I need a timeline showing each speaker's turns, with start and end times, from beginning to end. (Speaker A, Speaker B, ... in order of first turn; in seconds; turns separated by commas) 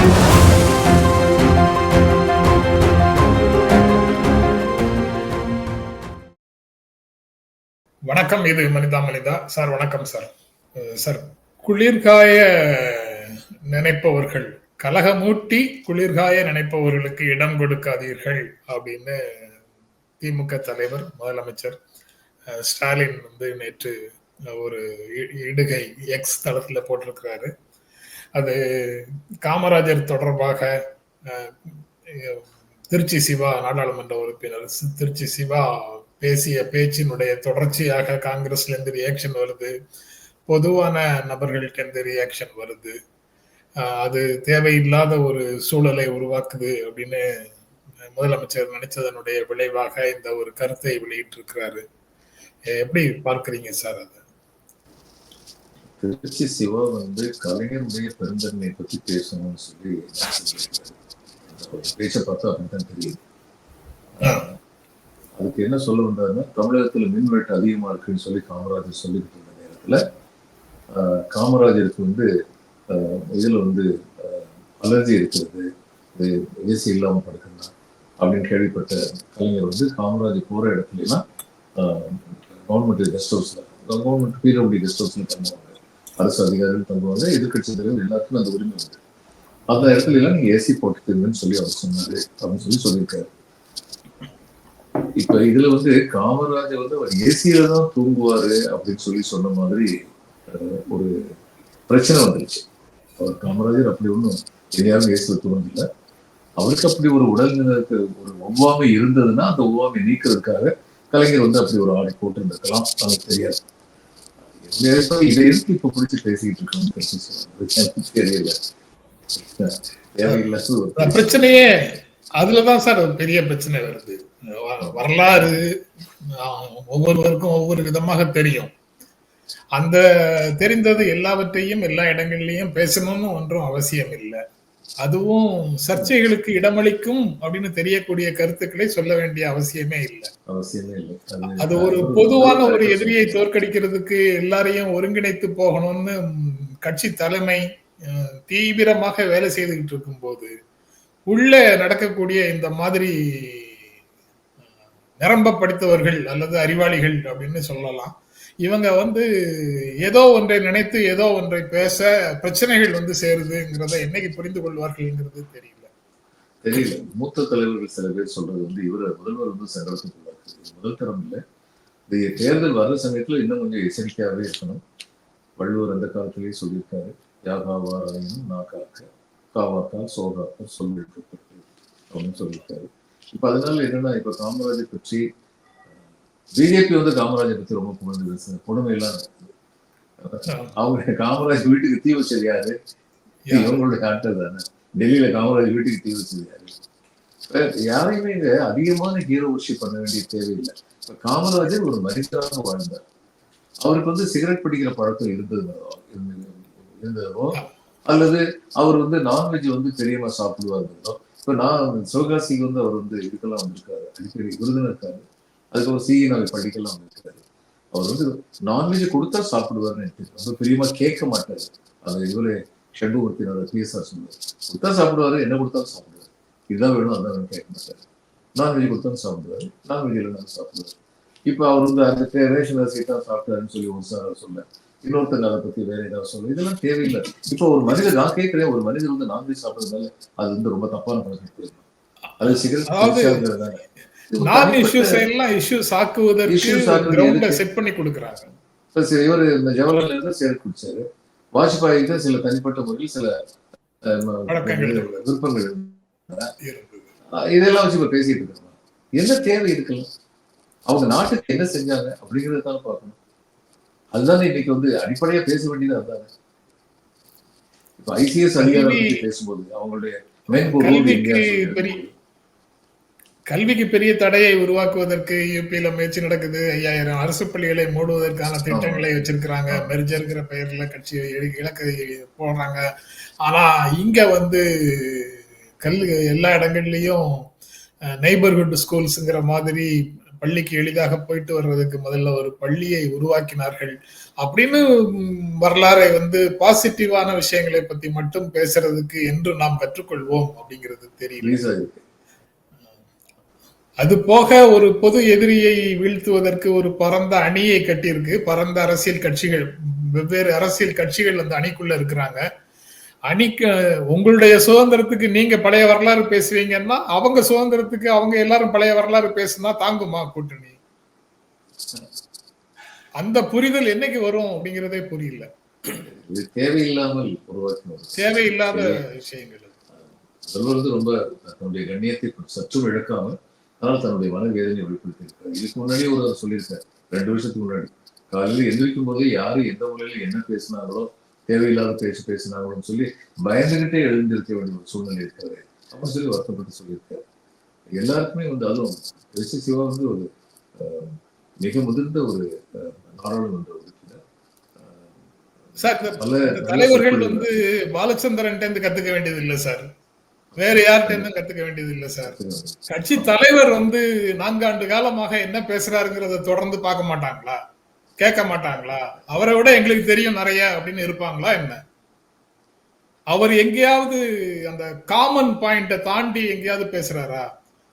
Speaker A: 8.1-19.5, Speaker A: 20.2-21.8, Speaker A: 22.5-24.0, Speaker A: 24.5-27.5, Speaker A: 28.4-30.7, Speaker A: 31.3-39.7, Speaker A: 40.5-43.0, Speaker A: 43.8-47.2, Speaker A: 48.1-51.8, Speaker A: 52.7-54.2, Speaker B: 56.0-61.0, Speaker B: 61.5-63.2, Speaker B: 64.2-64.5, Speaker A: 64.2-64.5, Speaker B: 65.4-70.0, Speaker B: 70.9-72.3, Speaker B: 72.9-81.2, Speaker B: 81.8-89.0, Speaker B: 89.7-93.3, Speaker B: 95.2-99.9, Speaker B: 100.5-101.1, Speaker B: 101.9-102.6, Speaker B: 103.2-105.9, Speaker B: 106.6-113.6, Speaker B: 114.6-118.5, Speaker B: 119.3-121.4, Speaker A: 120.2-125.7, Speaker A: 126.4-128.7, Speaker A: 129.8-130.0, Speaker A: 130.6-134.4, Speaker A: 135.0-140.3, Speaker B: 140.5-143.4, Speaker A: 141.5-150.5, Speaker A: 151.3-153.8, Speaker A: 155.2-158.1, Speaker A: 158.6-165.9, Speaker B: 166.6-171.4, Speaker B: 172.1-174.8, Speaker B: 175.6-185.2, Speaker B: 186.6-189.5, Speaker B: 190.2-192.8, Speaker A: 190.5-190.7, Speaker A: 193.5-193.8, Speaker B: 193.5-196.8, Speaker B: 197.5-203.0, Speaker B: 203.8-217.4, Speaker B: 217.9-228.0, Speaker B: 228.6-230.9, Speaker B: 231.5-241.8, Speaker B: 242.4-245.3, Speaker A: 242.8-243.5, Speaker A: 244.3-248.5, Speaker B: 246.5-247.6, Speaker B: 248.9-253.3, Speaker B: 254.1-256.5, Speaker A: 254.5-255.1, Speaker A: 256.6-257.1, Speaker B: 257.3-260.1, Speaker B: 260.9-263.2, Speaker B: 264.1-266.3, Speaker B: 268.0-272.1, Speaker A: 268.6-269.2, Speaker A: 270.6-272.0, Speaker A: 273.5-282.8, Speaker B: 278.7-279.1, Speaker A: 283.4-287.4, Speaker A: 288.2-301.6, Speaker B: 301.4-302.0, Speaker A: 304.0-309.7, Speaker A: 310.2-312.4, Speaker A: 313.3-320.8, Speaker A: 323.2-325.5, Speaker B: 326.0-329.0, Speaker A: 328.2-329.7, Speaker B: 330.5-347.2, Speaker B: 348.0-354.2, Speaker B: 354.8-355.2, Speaker A: 355.8-359.9, Speaker B: 356.2-357.5, Speaker B: 360.5-361.3, Speaker A: 360.6-362.4, Speaker B: 362.2-363.4, Speaker A: 362.9-367.6, Speaker A: 368.2-371.8, Speaker A: 373.3-377.5